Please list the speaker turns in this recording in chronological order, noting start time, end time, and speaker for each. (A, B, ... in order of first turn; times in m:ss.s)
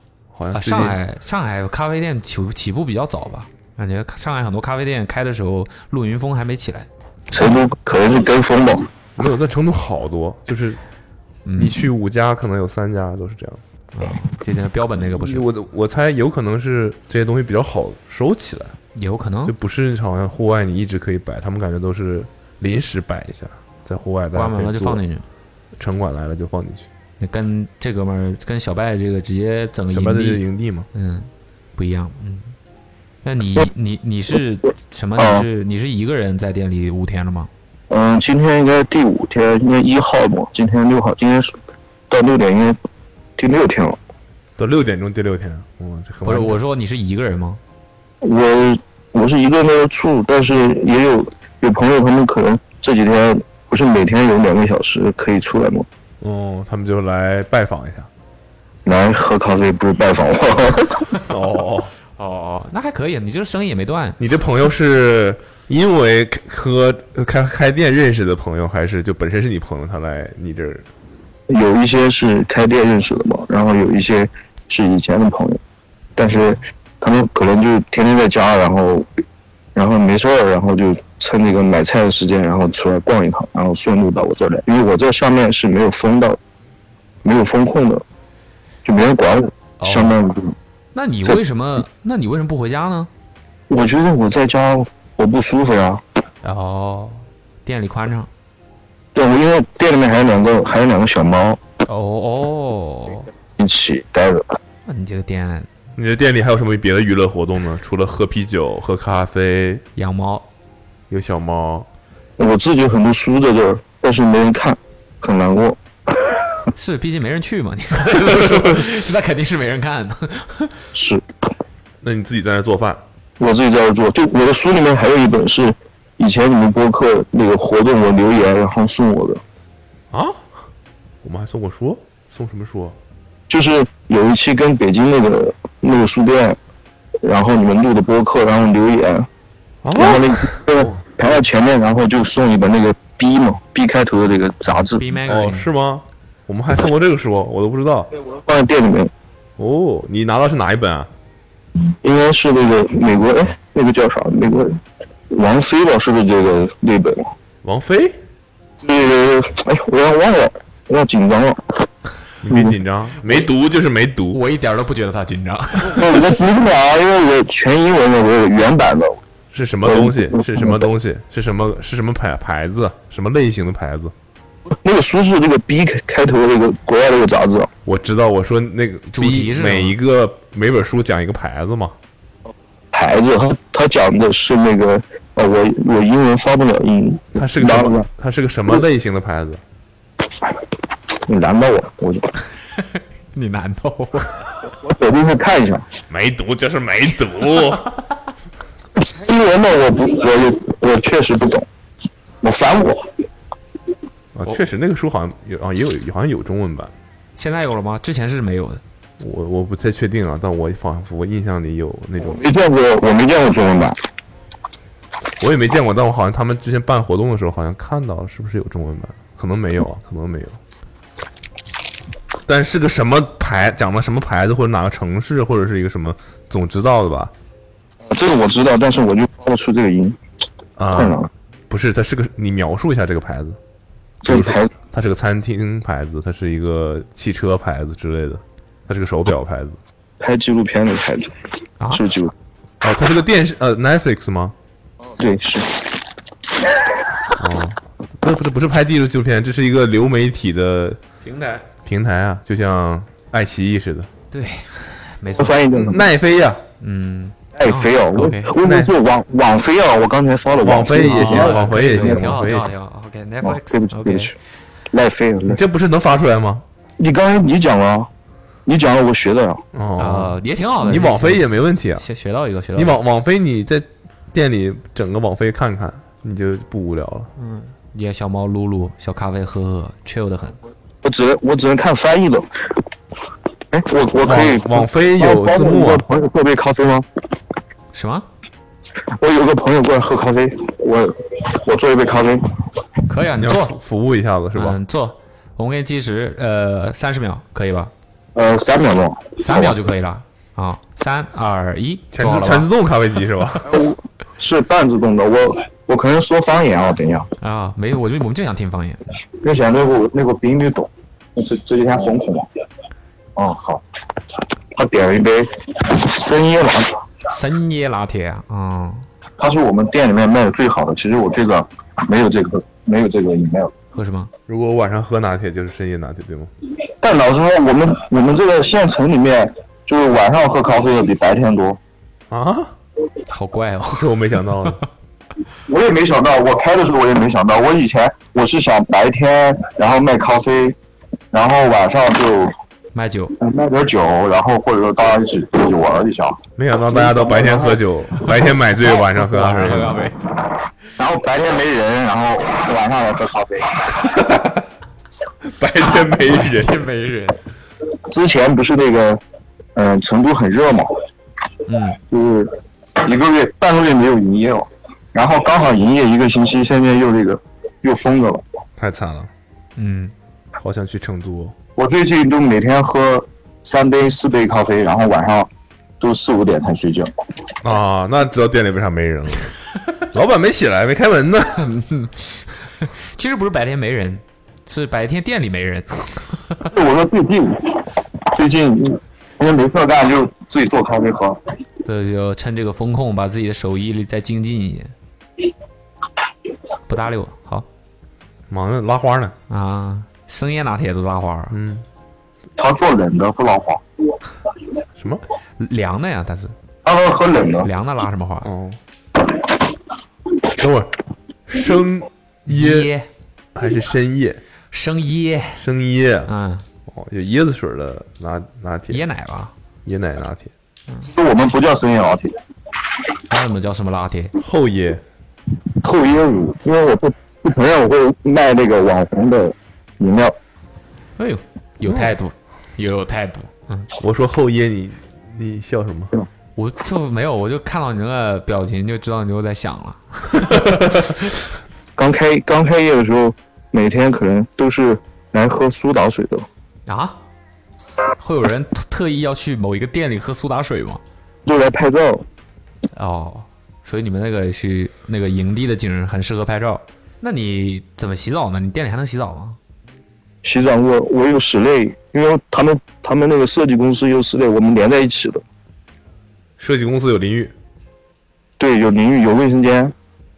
0:00.3-0:01.0 A
0:00.5-0:06.9 B
0:07.3-0:08.9 C
0:09.2-0:10.8 A
0:11.4-0:11.9 B
0:11.6-0:13.6 A
0:13.9-0:15.4 B
0:15.0-0:18.8 A
0:19.0-0:19.6 B
0:19.4-0:25.0 A
0:24.3-0:25.2 B
0:25.8-0:26.9 A
0:27.2-0:32.6 B
0:29.9-0:30.9 A
0:33.2-0:37.5 B
0:35.2-0:35.5 C
0:37.9-0:41.5 C
0:42.1-0:42.8 C
0:43.4-0:44.0 C
0:44.6-0:46.6 A
0:46.2-0:47.6 B
0:48.2-0:55.9 C
0:56.2-0:58.1 A
0:58.9-1:01.0 C
1:01.3-1:01.9 A
1:02.2-1:04.2 B
1:04.2-1:10.9 A
1:11.5-1:15.6 C
1:16.2-1:19.1 C
1:19.8-1:26.4 C
1:27.2-1:28.0 C
1:28.8-1:30.6 C
1:29.8-1:30.2 B
1:31.0-1:33.1 B
1:33.7-1:36.0 C
1:36.4-1:38.3 B
1:39.2-1:41.6 C
1:41.9-1:43.3 B
1:43.6-1:44.6 C
1:44.9-1:45.7 B
1:46.0-1:49.8 A
1:50.0-1:50.5 B
1:51.1-1:51.9 A
1:52.4-1:56.4 C
1:56.8-2:00.8 B
2:01.0-2:01.2 C
2:02.0-2:03.0 A
2:03.4-2:09.4 C
2:10.1-2:10.4 A
2:11.2-2:13.0 A
2:13.5-2:16.6 C
2:17.2-2:19.3 C
2:19.8-2:21.0 A
2:19.9-2:25.1 C
2:25.0-2:25.7 B
2:25.3-2:28.1 A
2:28.3-2:29.1 C
2:29.6-2:31.1 A
2:32.0-2:34.8 C
2:35.3-2:37.3 C
2:37.6-2:38.2 A
2:38.8-2:41.6 C
2:42.4-2:44.4 A
2:42.5-2:42.8 C
2:44.3-2:46.3 B
2:45.9-2:49.2 C
2:49.5-2:54.1 A
2:49.8-2:50.9 C
2:54.8-2:57.7 C
2:57.8-3:02.0 A
2:59.1-3:00.0 B
3:02.9-3:08.1 C
3:07.4-3:09.6 A
3:11.2-3:12.3 C
3:12.8-3:14.5 B
3:14.8-3:15.9 C
3:16.1-3:17.9 A
3:19.0-3:21.7 C
3:22.4-3:23.1 C
3:24.3-3:26.9 A
3:27.4-3:28.8 B
3:29.2-3:32.5 A
3:32.2-3:34.0 C
3:35.4-3:40.6 A
3:42.5-3:47.3 A
3:48.0-3:50.2 C
3:50.8-3:53.6 A
3:50.9-3:51.3 C
3:54.2-3:54.7 C
3:54.2-3:59.8 A
4:00.2-4:01.4 C
4:01.9-4:02.3 C
4:02.8-4:04.6 A
4:05.1-4:06.0 C
4:07.4-4:11.0 A
4:11.2-4:11.6 B
4:11.8-4:14.1 A
4:14.3-4:15.6 B
4:15.4-4:16.1 C
4:15.7-4:16.6 A
4:16.8-4:18.5 B
4:17.6-4:22.3 C
4:18.6-4:18.9 A
4:20.6-4:22.7 A
4:21.0-4:24.3 B
4:23.4-4:24.4 C
4:24.9-4:25.6 C
4:25.5-4:26.6 A
4:27.0-4:28.1 C
4:28.7-4:29.6 C
4:29.7-4:32.0 A
4:30.0-4:33.0 B
4:32.8-4:37.3 A
4:37.4-4:40.6 B
4:41.0-4:42.5 C
4:43.7-4:47.1 C
4:44.2-4:46.1 A
4:47.9-4:48.3 B
4:49.2-4:52.5 C
4:53.1-4:53.8 B
4:53.4-4:54.8 A
4:54.5-4:57.9 B
4:58.4-4:59.8 C
4:59.4-5:02.7 B
5:02.1-5:03.8 A
5:03.7-5:07.3 C
5:07.4-5:09.0 B
5:09.4-5:12.5 C
5:13.4-5:13.8 C
5:14.7-5:17.0 C
5:17.3-5:19.1 B
5:19.4-5:23.7 C
5:23.9-5:24.3 B
5:24.5-5:26.5 A
5:27.0-5:31.8 C
5:32.3-5:32.7 A
5:33.3-5:34.1 B
5:33.9-5:34.8 A
5:35.7-5:40.8 C
5:41.3-5:42.6 C
5:42.9-5:43.4 B
5:43.4-5:47.8 C
5:46.6-5:50.1 A
5:48.2-5:50.2 B
5:51.0-5:54.0 C
5:55.4-5:56.8 A
5:56.2-5:57.4 B
5:58.1-5:59.2 C
5:59.8-6:01.0 C
6:01.7-6:02.0 B
6:02.0-6:08.4 C
6:08.8-6:09.3 A
6:09.8-6:10.1 B
6:10.6-6:11.6 A
6:11.8-6:15.5 C
6:16.0-6:17.1 C
6:17.6-6:21.7 A
6:21.6-6:26.6 B
6:26.7-6:31.4 C
6:31.8-6:34.9 B
6:36.9-6:37.7 B
6:38.5-6:39.4 A
6:39.5-6:41.6 B
6:41.5-6:41.8 A
6:42.6-6:43.8 C
6:45.0-6:45.2 A
6:45.6-6:46.5 B
6:46.8-6:47.7 C
6:47.6-6:48.5 B
6:48.4-6:48.8 A
6:50.6-6:51.0 A
6:51.5-6:52.9 A
6:52.5-6:53.1 B
6:53.6-6:54.4 A
6:54.7-6:55.6 B
6:55.6-6:56.3 A
6:56.3-6:56.6 B
6:56.9-6:59.1 A
6:58.9-6:59.5 B
6:59.8-7:00.5 A
7:01.0-7:02.4 C
7:03.3-7:04.3 B
7:04.4-7:05.0 A
7:05.8-7:10.4 C
7:11.2-7:13.9 B
7:11.9-7:12.1 A
7:14.0-7:16.1 A
7:16.6-7:21.3 B
7:22.0-7:26.5 C
7:26.9-7:27.2 B
7:28.2-7:31.0 B
7:31.5-7:32.2 C
7:33.0-7:39.6 B
7:40.4-7:45.4 C
7:46.6-7:47.5 A
7:48.6-7:49.9 C